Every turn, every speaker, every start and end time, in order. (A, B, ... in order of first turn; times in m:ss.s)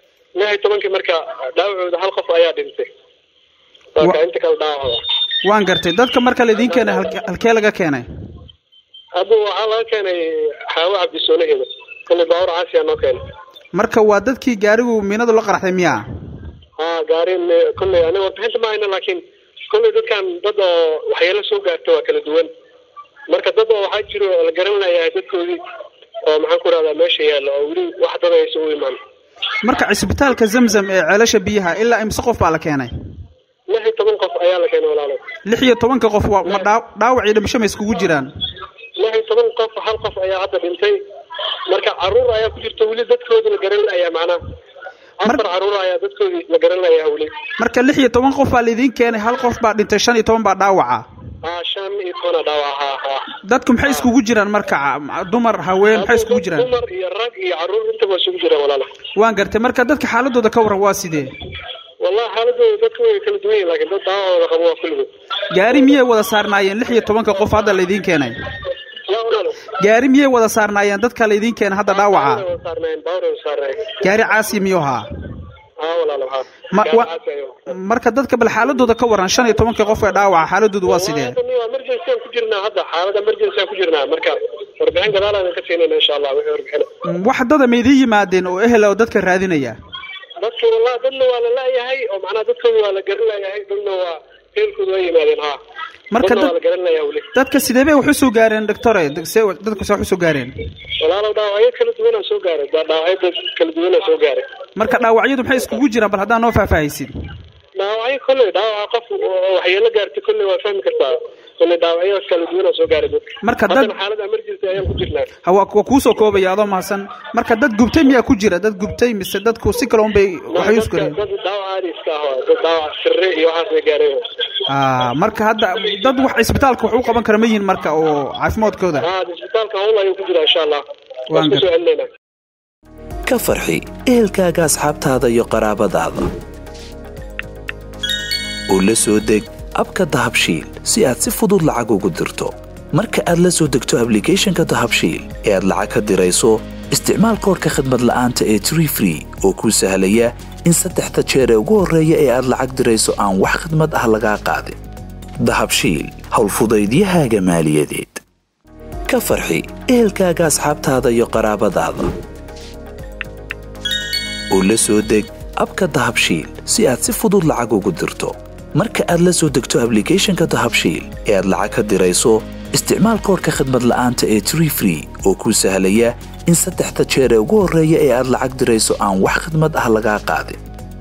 0:00.4-0:02.9 A
0:03.9-0:05.0 A
0:05.4-0:08.1 B
0:09.2-0:13.2 A
0:13.7-0:16.0 B
0:16.8-0:22.5 A
0:23.3-0:25.6 A
0:26.3-0:29.0 A
0:29.6-0:32.9 B
0:33.7-0:35.2 A
0:35.5-0:38.3 B
0:39.0-0:41.0 A
0:41.7-0:44.4 A
0:45.2-0:47.3 A
0:47.6-0:51.1 B
0:51.4-0:54.1 A
0:53.4-0:56.7 B
0:55.9-0:58.9 A
0:59.2-1:01.3 B
1:02.0-1:05.1 A
1:05.5-1:08.4 B
1:09.1-1:09.7 A
1:09.8-1:12.4 B
1:11.9-1:14.0 A
1:14.0-1:15.1 B
1:15.8-1:17.6 A
1:16.7-1:17.1 B
1:17.7-1:21.4 B
1:20.9-1:26.9 A
1:27.0-1:29.8 B
1:30.4-1:35.6 A
1:36.1-1:36.5 B
1:36.2-1:37.3 A
1:37.3-1:40.5 B
1:41.0-1:44.5 A
1:44.8-1:47.1 B
1:47.8-1:55.3 A
1:53.4-1:53.9 B
1:55.4-2:01.2 B
2:00.5-2:04.2 A
2:04.7-2:09.0 B
2:09.0-2:12.1 A
2:11.3-2:11.6 B
2:13.3-2:16.3 C
2:18.7-2:34.8 C
2:35.4-2:38.2 C
2:39.1-2:42.1 C
2:44.5-3:00.6 C